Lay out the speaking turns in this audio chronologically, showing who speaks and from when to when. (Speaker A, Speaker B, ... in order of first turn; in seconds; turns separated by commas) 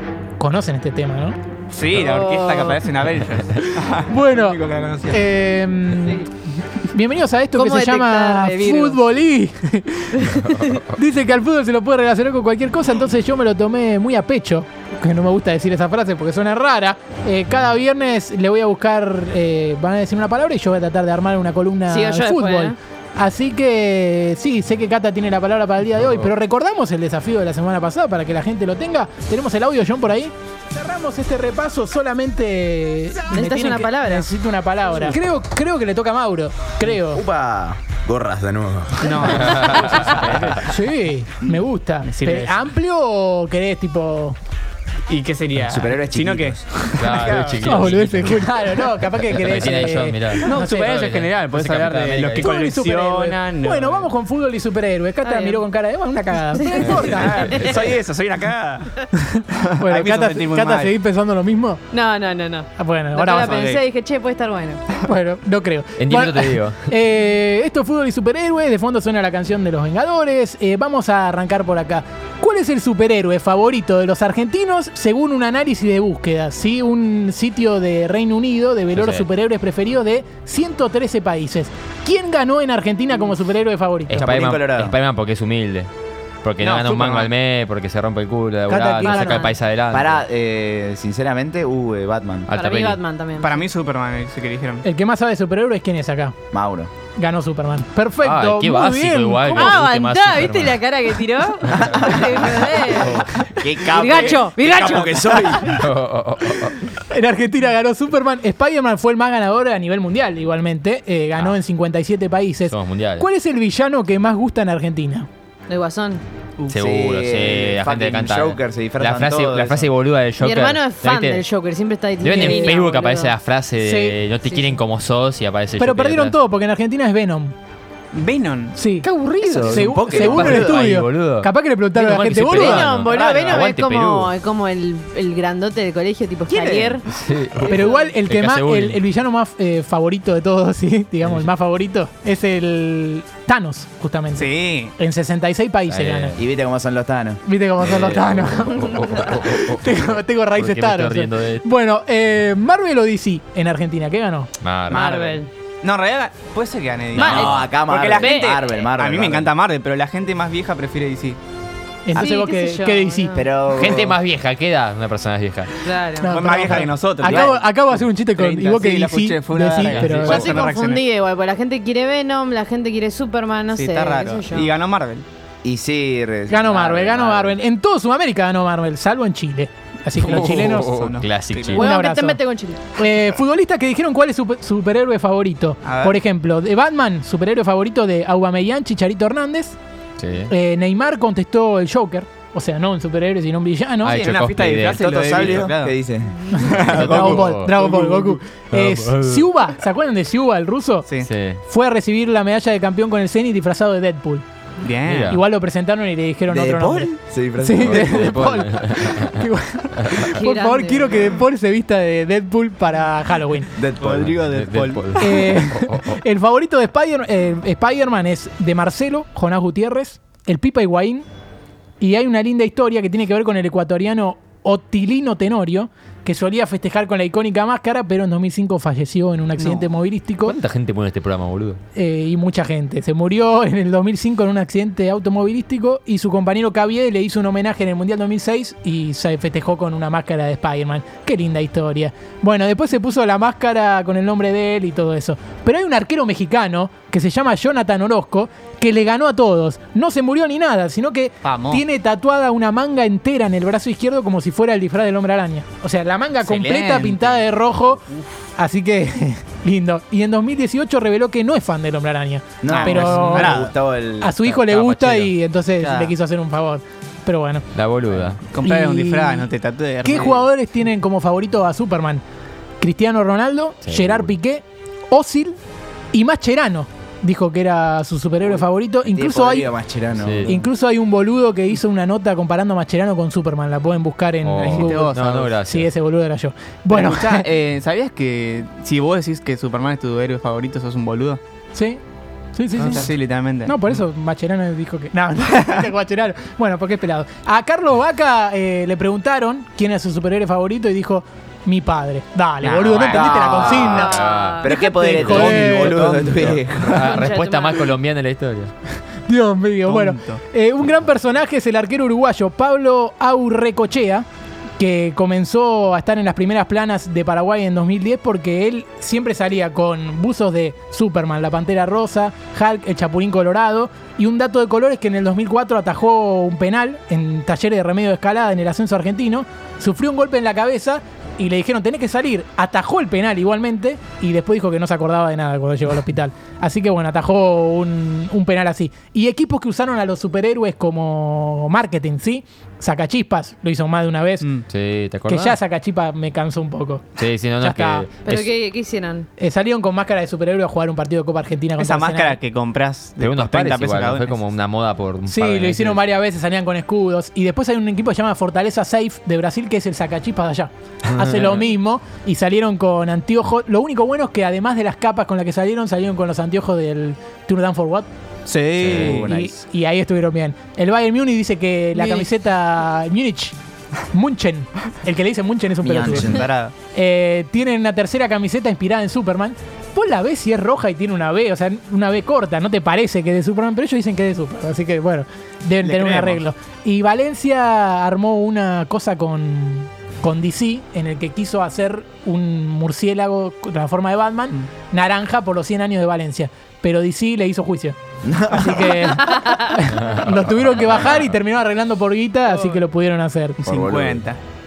Speaker A: 0.4-1.4, Speaker B: 1.7-5.3, Speaker C: 1.9-2.8, Speaker A: 4.0-6.3, Speaker A: 6.8-37.2, Speaker C: 7.6-9.1, Speaker C: 10.2-10.8, Speaker C: 21.9-22.8, Speaker C: 33.3-34.3, Speaker D: 37.1-39.4, Speaker B: 39.0-40.6, Speaker E: 39.4-40.6, Speaker A: 40.6-44.4, Speaker B: 42.0-42.6, Speaker B: 45.1-47.7, Speaker D: 45.6-47.7, Speaker E: 47.0-52.6, Speaker A: 47.5-50.6, Speaker B: 50.5-54.1, Speaker A: 52.3-57.7, Speaker C: 55.2-55.6, Speaker C: 56.5-57.8, Speaker B: 57.0-60.9, Speaker A: 59.2-61.8, Speaker C: 61.9-64.8, Speaker A: 62.8-63.5, Speaker B: 63.3-63.8, Speaker A: 65.0-84.2, Speaker E: 66.0-66.8, Speaker E: 78.9-79.3, Speaker E: 84.1-85.9, Speaker D: 84.1-85.0, Speaker E: 86.4-90.2, Speaker B: 86.6-87.3, Speaker A: 88.7-89.5, Speaker C: 89.0-89.6, Speaker D: 89.9-92.5, Speaker E: 92.5-93.0, Speaker C: 92.6-93.6, Speaker B: 93.4-94.8, Speaker A: 94.8-96.4, Speaker D: 96.5-96.9, Speaker A: 97.1-99.8, Speaker E: 98.2-100.8, Speaker C: 99.5-105.6, Speaker E: 101.7-102.1, Speaker E: 102.9-103.2, Speaker D: 103.5-105.8, Speaker E: 105.5-106.8, Speaker A: 106.9-115.3, Speaker E: 112.7-113.3, Speaker C: 115.7-116.2, Speaker E: 116.7-121.5, Speaker D: 116.7-119.9, Speaker C: 120.4-123.3, Speaker E: 122.2-126.4, Speaker A: 122.3-122.7, Speaker A: 123.8-124.7, Speaker A: 125.8-127.5, Speaker B: 128.1-128.8, Speaker A: 128.8-132.9, Speaker D: 129.4-130.8, Speaker E: 129.5-134.3, Speaker C: 132.5-137.1, Speaker B: 133.1-133.6, Speaker D: 136.5-137.0, Speaker E: 137.1-139.0, Speaker C: 137.6-138.1, Speaker A: 137.7-146.4, Speaker E: 141.2-141.5, Speaker B: 144.3-144.9, Speaker E: 145.9-146.4, Speaker D: 146.4-147.4, Speaker A: 147.4-154.5, Speaker E: 147.8-151.7, Speaker E: 154.6-155.3, Speaker C: 154.9-155.5, Speaker B: 154.9-161.4, Speaker C: 157.2-157.5, Speaker D: 157.2-159.5, Speaker E: 157.2-157.7, Speaker C: 158.2-158.5, Speaker A: 162.1-163.4, Speaker C: 162.2-163.4, Speaker D: 163.3-164.2, Speaker E: 163.7-165.7, Speaker C: 165.8-166.3, Speaker A: 166.2-170.5, Speaker B: 166.2-171.0, Speaker E: 169.8-170.3, Speaker C: 170.2-174.7, Speaker B: 173.7-175.2, Speaker D: 175.6-177.6, Speaker A: 176.5-181.0, Speaker B: 180.2-181.8, Speaker E: 180.2-181.9, Speaker A: 181.7-182.4, Speaker C: 181.8-182.8, Speaker A: 183.0-189.8, Speaker B: 185.8-186.2, Speaker E: 190.2-190.5, Speaker A: 190.5-194.3, Speaker E: 194.0-195.7, Speaker B: 194.1-195.9, Speaker D: 195.0-196.4, Speaker A: 196.5-204.4, Speaker B: 196.6-198.7, Speaker E: 196.7-197.8, Speaker E: 198.7-199.5, Speaker E: 201.2-201.6, Speaker B: 204.8-205.4, Speaker E: 205.1-205.4, Speaker A: 205.3-213.7, Speaker D: 206.5-208.4, Speaker E: 207.8-209.4, Speaker E: 210.0-210.2, Speaker C: 210.4-211.3, Speaker D: 213.8-214.4, Speaker B: 214.0-215.4, Speaker E: 214.4-216.2, Speaker A: 215.2-221.3, Speaker A: 222.0-230.6, Speaker E: 230.4-231.8, Speaker A: 231.9-258.1, Speaker B: 251.4-251.8, Speaker B: 256.4-257.4, Speaker A: 258.6-263.6, Speaker D: 262.6-264.4, Speaker B: 262.7-263.7, Speaker A: 264.2-267.7, Speaker E: 264.4-265.4, Speaker B: 265.8-266.1, Speaker E: 267.8-268.4, Speaker B: 268.5-270.4, Speaker A: 268.6-272.2, Speaker A: 272.8-275.6, Speaker E: 273.8-274.3, Speaker A: 276.1-279.7, Speaker D: 279.1-280.5, Speaker E: 280.2-280.6, Speaker A: 280.5-287.5, Speaker E: 284.4-285.9, Speaker B: 284.6-285.6, Speaker B: 286.9-291.4, Speaker A: 291.7-292.0, Speaker A: 292.6-293.1, Speaker B: 292.8-293.8, Speaker A: 293.6-306.2, Speaker B: 302.6-303.5, Speaker D: 303.0-307.1, Speaker E: 303.4-308.7, Speaker C: 303.9-304.7, Speaker B: 305.7-306.6, Speaker C: 307.0-307.9, Speaker A: 309.3-314.3, Speaker B: 309.9-310.4, Speaker A: 314.8-344.5, Speaker E: 344.6-345.6, Speaker A: 345.2-348.1, Speaker E: 347.2-348.5, Speaker C: 348.2-349.3, Speaker A: 349.4-352.4, Speaker B: 351.8-354.4, Speaker E: 353.2-356.0, Speaker A: 355.3-368.1, Speaker B: 368.5-369.3, Speaker E: 368.8-369.2, Speaker D: 368.8-369.6, Speaker A: 369.1-373.6, Speaker B: 372.0-372.2, Speaker A: 374.1-398.0, Speaker D: 375.8-376.5, Speaker B: 375.8-376.7, Speaker B: 385.8-386.4, Speaker D: 398.2-399.1, Speaker A: 398.5-403.7, Speaker E: 400.8-401.2, Speaker B: 403.6-404.4, Speaker D: 403.6-404.2